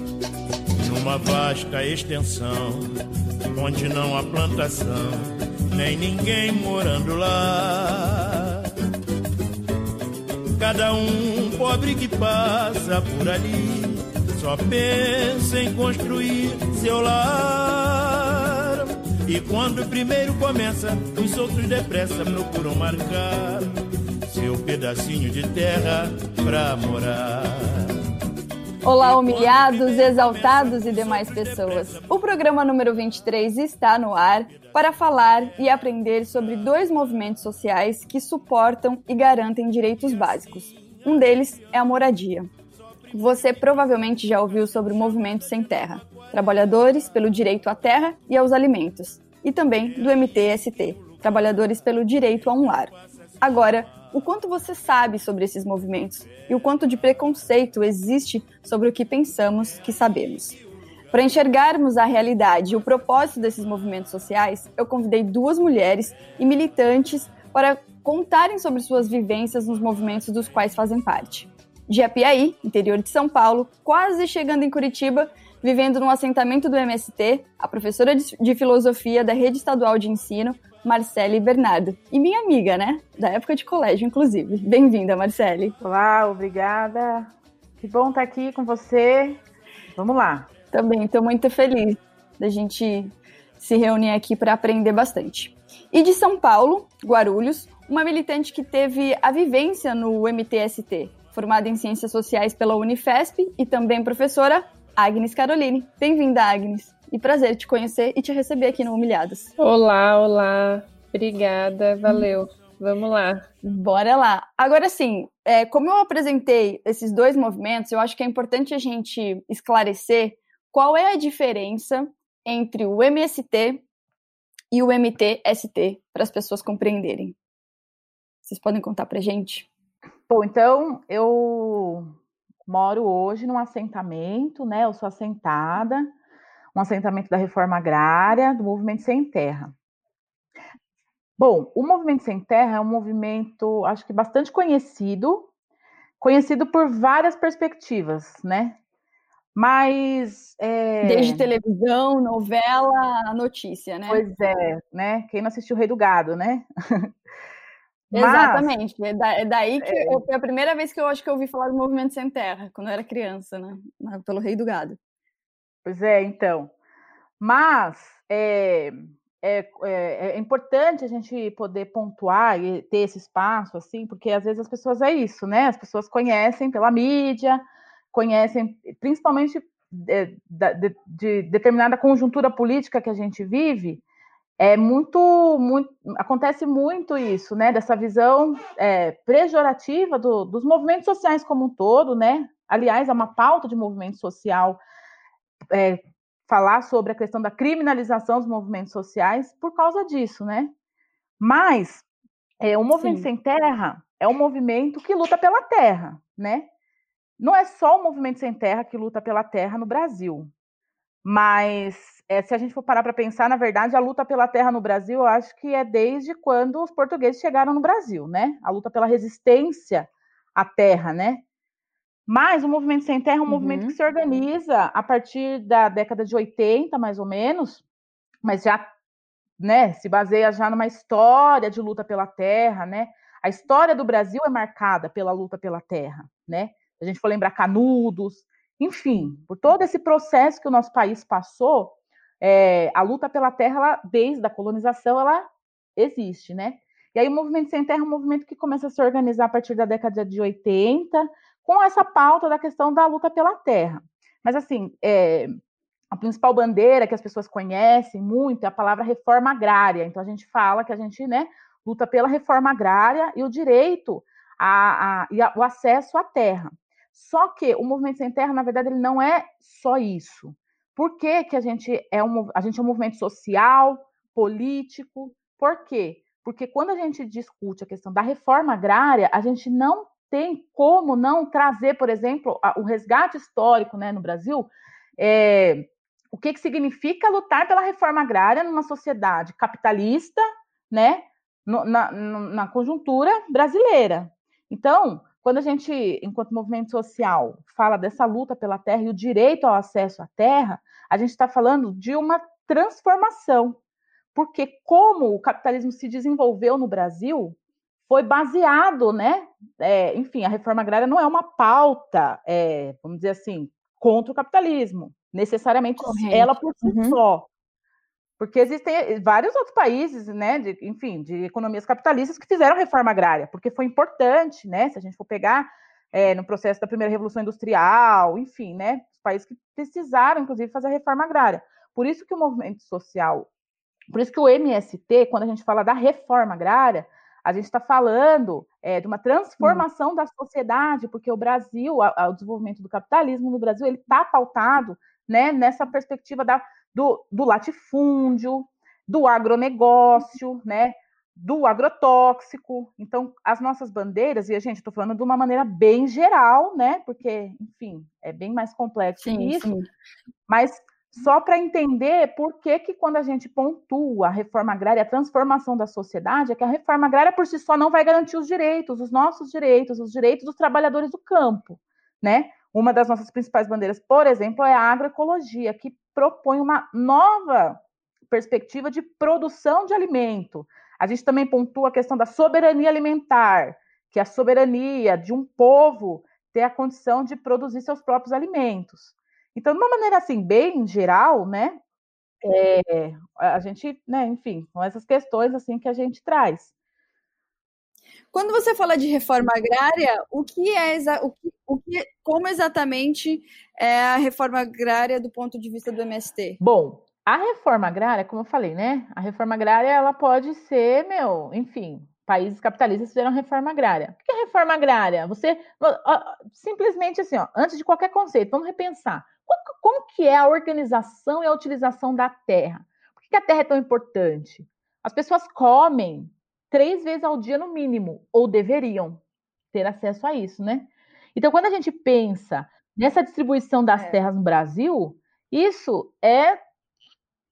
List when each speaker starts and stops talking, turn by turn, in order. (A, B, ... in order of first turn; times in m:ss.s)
0:00.8-0:02.9 A
0:03.5-0:08.7 A
0:10.6-0:23.7 A
0:24.3-0:27.9 A
0:28.8-0:42.5 B
0:28.9-0:32.0 A
0:43.1-1:00.6 B
1:01.1-1:25.8 B
1:25.8-1:29.4 C
1:29.9-1:30.5 C
1:30.7-1:49.5 B
1:49.6-1:53.5 D
1:53.6-2:03.8 B
2:04.7-2:07.3 B
2:08.4-2:09.7 B
2:10.3-2:12.1 C
2:12.7-2:16.1 C
2:16.7-2:19.7 C
2:21.4-2:25.5 C
2:26.2-2:28.8 C
2:29.5-2:31.4 C
2:31.0-2:34.2 B
2:34.1-2:37.1 C
2:38.1-2:38.7 C
2:38.1-2:45.0 B
2:39.8-2:40.2 C
2:45.8-2:46.7 C
2:47.4-3:04.0 C
3:04.6-3:14.8 C
3:15.7-3:20.7 C
3:21.4-3:22.0 C
3:22.6-3:26.7 C
3:22.9-3:23.3 B
3:27.4-3:30.5 C
3:31.2-3:41.4 C
3:42.3-3:47.8 C
3:43.5-3:44.0 B
3:48.4-3:48.9 C
3:49.6-4:15.5 C
4:16.1-5:03.8 C
5:04.3-5:07.6 C
5:08.1-5:17.5 C
5:16.0-5:17.2 B
5:18.4-5:33.5 C
5:34.1-5:59.7 C
5:39.6-5:39.8 B
5:59.2-5:59.9 B
6:00.5-6:31.8 C
6:32.4-6:36.7 C
6:38.3-6:46.6 B
6:46.6-7:09.2 C
7:09.7-7:16.6 C